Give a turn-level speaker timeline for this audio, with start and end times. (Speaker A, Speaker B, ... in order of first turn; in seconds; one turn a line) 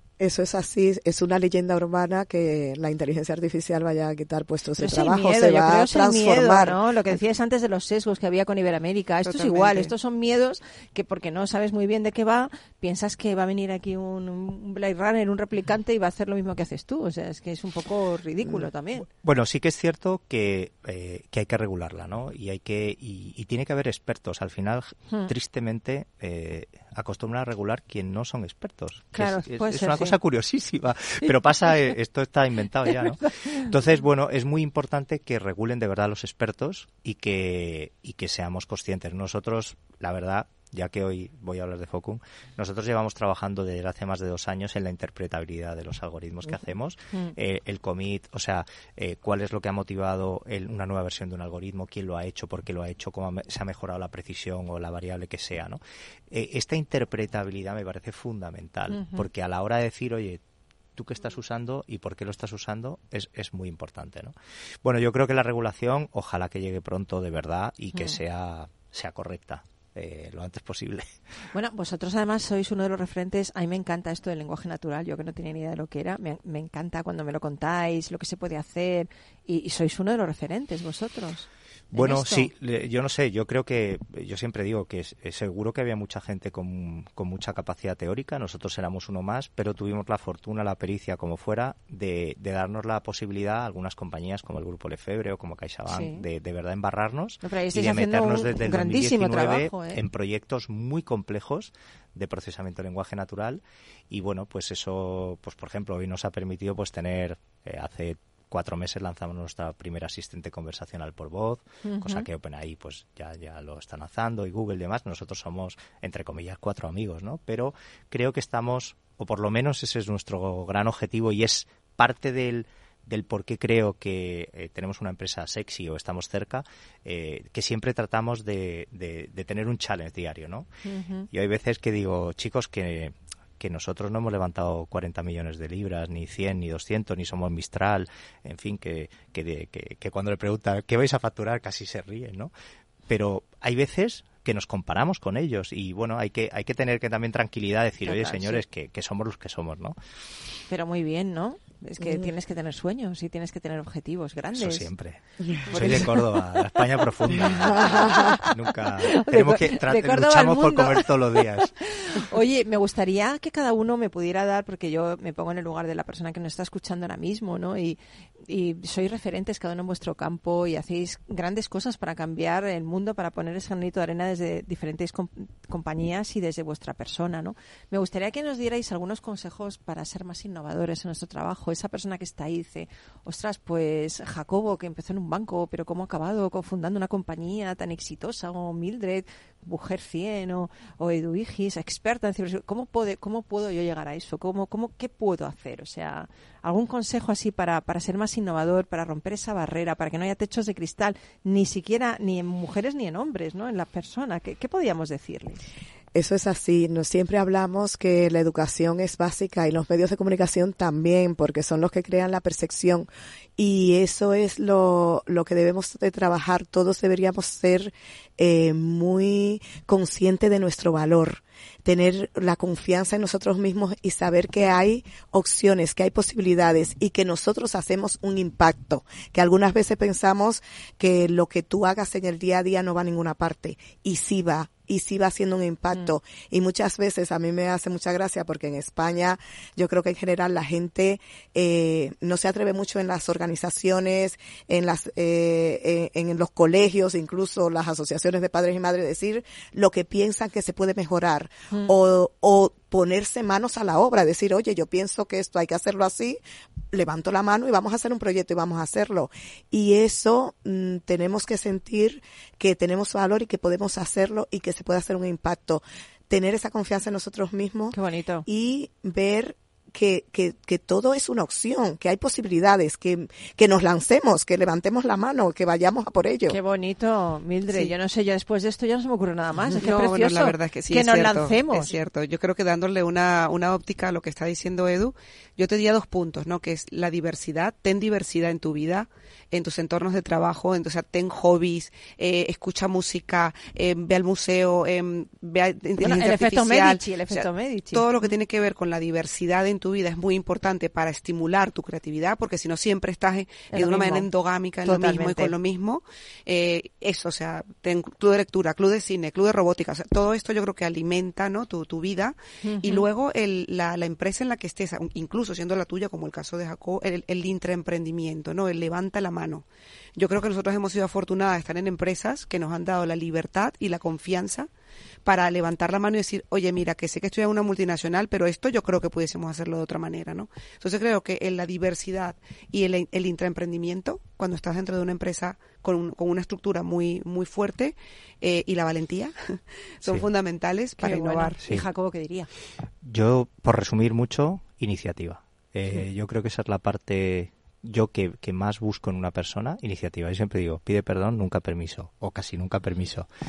Speaker A: 0.2-6.8
Speaker B: 4.8-19.1
Speaker C: 9.2-9.9
Speaker D: 18.4-55.8
Speaker B: 29.1-30.1
Speaker B: 32.9-33.7
Speaker D: 56.3-60.4
Speaker B: 58.9-59.2
Speaker D: 61.0-71.1
Speaker B: 71.5-82.5
Speaker D: 81.9-130.7
Speaker B: 95.9-96.2
Speaker B: 97.4-100.0
Speaker B: 111.8-112.3
Speaker B: 130.8-131.3
Speaker D: 131.3-142.5
Speaker D: 143.1-150.0
Speaker B: 148.0-148.6
Speaker B: 150.7-154.9
Speaker D: 154.6-161.8
Speaker B: 155.7-156.0
Speaker B: 157.4-158.5
Speaker B: 159.2-161.1
Speaker B: 161.8-205.6
Speaker A: 206.1-256.4
Speaker A: 256.9-276.6
Speaker B: 267.9-268.5
Speaker B: 276.5-282.0
Speaker C: 279.7-324.7
Speaker B: 296.0-298.1
Speaker B: 303.7-304.3
Speaker B: 304.9-305.5
Speaker B: 312.6-313.1
Speaker C: 325.2-341.6
Speaker B: 341.0-342.5
Speaker D: 343.0-353.3